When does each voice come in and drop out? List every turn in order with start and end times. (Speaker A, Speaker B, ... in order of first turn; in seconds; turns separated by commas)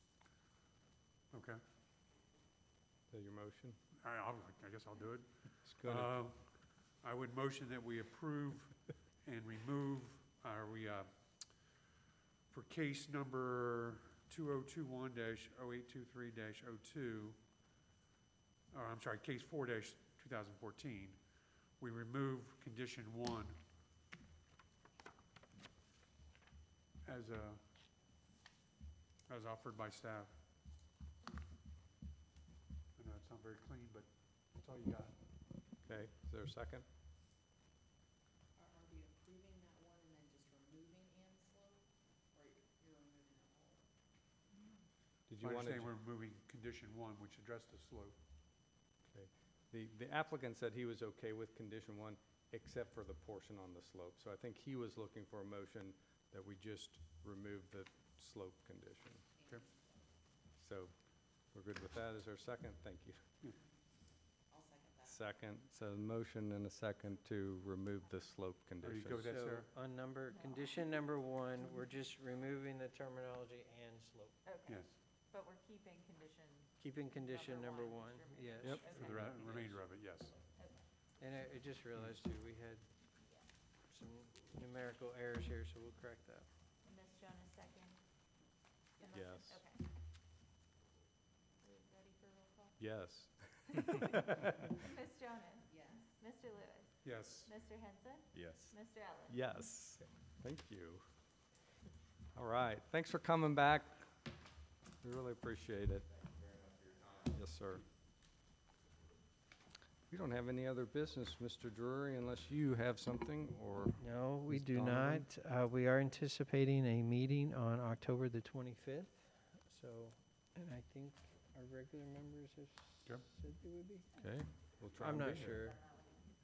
Speaker A: 1.3-1.6, Speaker B: 3.1-3.8, Speaker A: 4.0-11.7, Speaker B: 5.6-6.1, Speaker A: 12.5-17.4, Speaker A: 18.7-21.2, Speaker A: 21.8-23.6, Speaker A: 27.0-27.6, Speaker A: 29.3-30.3, Speaker A: 33.0-35.1, Speaker B: 35.8-36.9, Speaker C: 38.6-43.8, Speaker B: 45.3-45.9, Speaker A: 45.4-48.2, Speaker B: 49.1-59.3, Speaker B: 60.6-60.9, Speaker B: 61.5-63.2, Speaker C: 64.5-65.0, Speaker B: 65.0-69.3, Speaker A: 68.8-69.7, Speaker D: 69.2-74.3, Speaker E: 70.3-70.9, Speaker E: 74.4-79.8, Speaker D: 76.8-79.4, Speaker A: 78.9-80.3, Speaker E: 80.5-80.8, Speaker D: 81.2-82.8, Speaker D: 83.9-86.5, Speaker E: 86.8-88.0, Speaker E: 89.0-89.8, Speaker B: 89.1-89.6, Speaker E: 91.6-92.8, Speaker B: 92.8-94.8, Speaker E: 93.8-94.1, Speaker E: 94.8-96.9, Speaker A: 97.0-97.5, Speaker E: 97.4-99.3, Speaker B: 98.3-98.7, Speaker B: 99.3-101.0, Speaker B: 102.3-104.1, Speaker B: 105.0-106.2, Speaker B: 107.1-107.8, Speaker B: 110.1-115.2, Speaker D: 114.0-124.1, Speaker B: 124.2-125.7, Speaker D: 125.0-125.8, Speaker E: 125.5-126.2